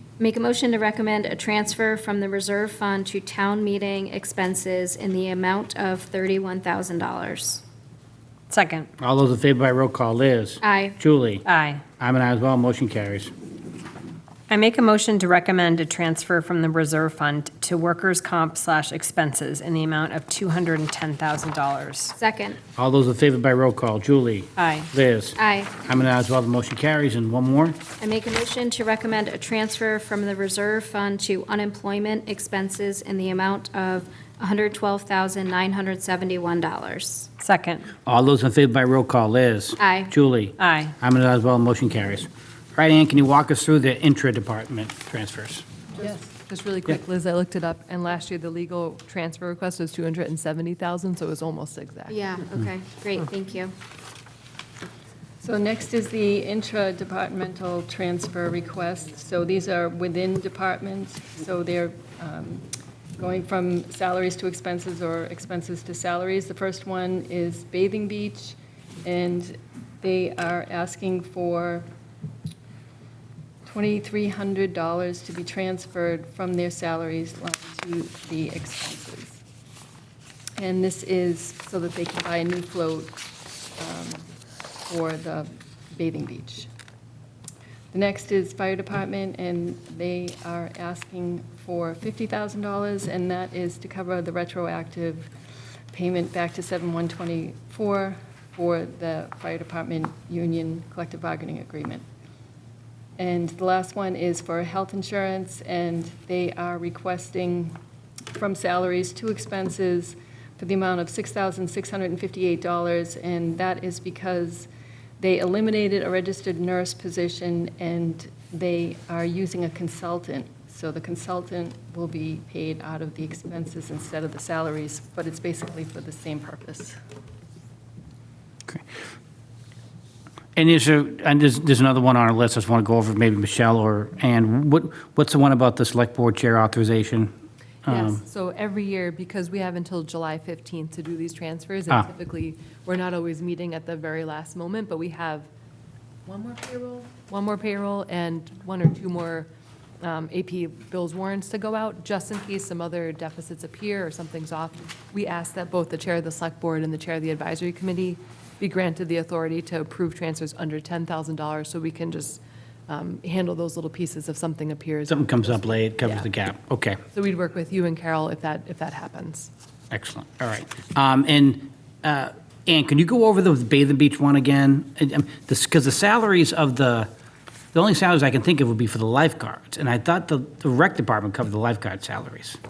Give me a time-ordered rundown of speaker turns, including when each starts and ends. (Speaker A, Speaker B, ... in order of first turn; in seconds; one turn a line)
Speaker A: 0.2-7.6
Speaker B: 8.5-8.9
Speaker C: 9.0-11.4
Speaker A: 10.6-11.0
Speaker B: 11.4-11.8
Speaker C: 12.0-13.3
Speaker B: 14.5-22.1
Speaker A: 22.1-22.6
Speaker C: 22.8-27.8
Speaker B: 24.6-24.9
Speaker A: 25.4-25.7
Speaker A: 28.0-37.3
Speaker B: 37.4-37.9
Speaker C: 38.0-45.7
Speaker A: 39.8-40.1
Speaker B: 40.6-40.9
Speaker D: 46.0-52.1
Speaker A: 52.1-53.7
Speaker E: 55.4-62.6
Speaker E: 63.2-71.8
Speaker E: 73.7-79.4
Speaker E: 80.6-83.1
Speaker E: 83.8-84.2
Speaker E: 84.9-86.7
Speaker E: 87.9-95.3
Speaker E: 95.9-102.0
Speaker E: 103.2-107.8
Speaker E: 108.3-114.7
Speaker E: 115.2-127.0
Speaker C: 130.6-137.3
Speaker C: 137.8-138.2
Speaker D: 137.9-145.5
Speaker D: 146.2-149.5
Speaker D: 150.0-166.3
Speaker C: 165.1-167.0
Speaker D: 167.1-169.5
Speaker C: 169.9-177.1
Speaker C: 177.7-182.6